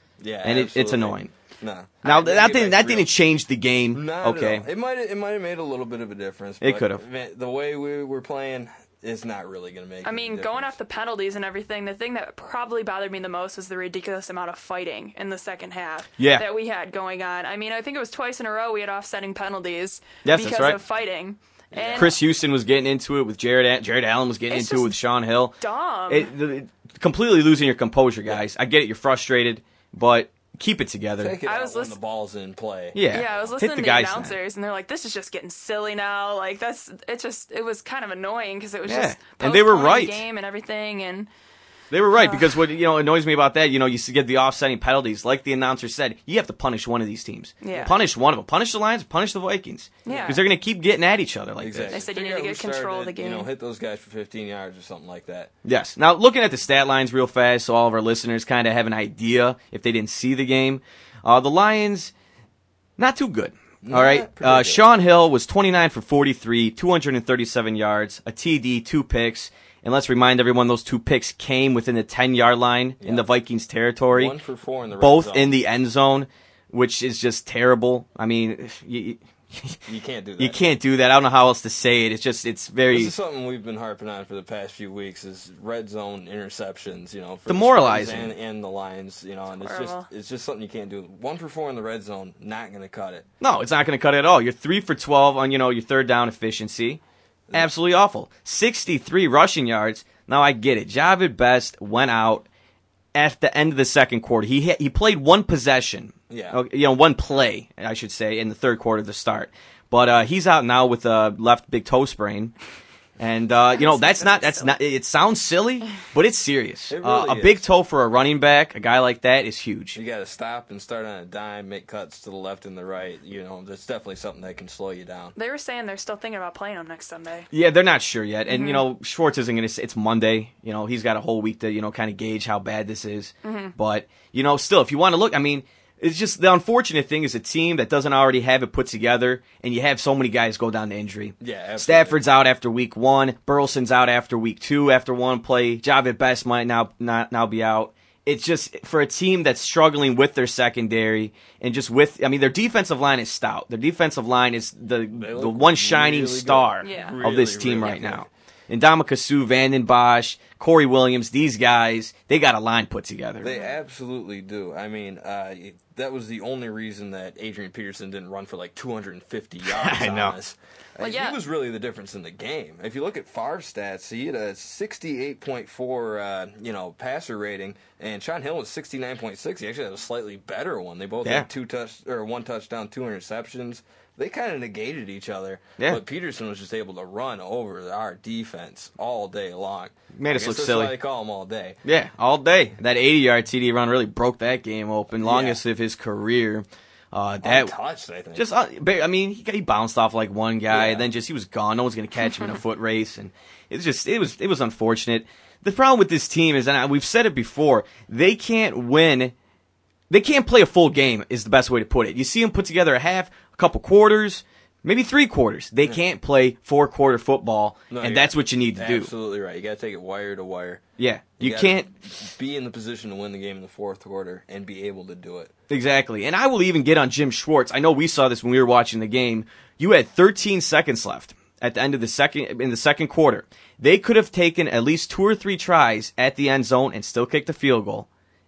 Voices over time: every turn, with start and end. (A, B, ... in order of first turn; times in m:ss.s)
0:00.2-0:03.1 A
0:00.4-0:01.3 B
0:02.0-0:04.6 B
0:03.9-0:10.7 A
0:06.6-0:07.0 B
0:10.0-0:22.2 C
0:16.2-0:16.4 B
0:20.2-0:20.8 B
0:21.7-0:22.2 A
0:21.9-0:25.6 B
0:24.5-0:25.0 C
0:25.6-0:26.3 C
0:26.1-0:31.4 B
0:31.2-0:33.5 A
0:31.4-0:32.0 C
0:32.9-0:34.3 B
0:33.1-0:41.3 C
0:38.8-0:40.2 B
0:41.9-0:52.0 B
0:42.1-0:42.5 C
0:47.6-0:48.0 C
0:50.0-0:50.4 C
0:50.0-0:50.4 A
0:51.6-0:55.5 A
0:51.9-0:53.5 C
0:55.6-1:02.1 B
1:03.0-1:14.4 B
1:03.8-1:04.8 A
1:13.0-1:13.2 A
1:14.1-1:15.5 A
1:15.0-1:19.8 B
1:19.9-1:20.6 A
1:20.4-1:23.1 B
1:22.9-1:33.2 A
1:27.5-1:28.3 B
1:29.6-1:30.1 C
1:33.4-1:37.0 B
1:37.5-1:42.4 B
1:43.1-1:52.5 B
1:46.3-1:46.6 A
1:53.2-2:00.0 B
1:53.7-1:54.8 C
1:56.9-1:57.6 A
1:59.9-2:05.3 A
2:05.4-2:07.5 C
2:07.5-2:43.5 B
2:08.5-2:08.8 C
2:13.4-2:13.7 C
2:21.4-2:22.2 A
2:35.1-2:38.3 A
2:36.8-2:37.2 C
2:43.4-3:11.8 A
2:49.7-2:50.3 B
2:51.0-2:51.4 C
3:10.2-3:11.0 B
3:11.8-3:17.7 B
3:15.2-3:15.6 A
3:17.4-3:18.4 A
3:18.3-3:29.3 B
3:20.7-3:21.0 A
3:30.1-3:39.1 B
3:37.9-3:40.8 A
3:41.0-3:41.9 B
3:41.4-3:45.5 A
3:45.7-3:58.1 B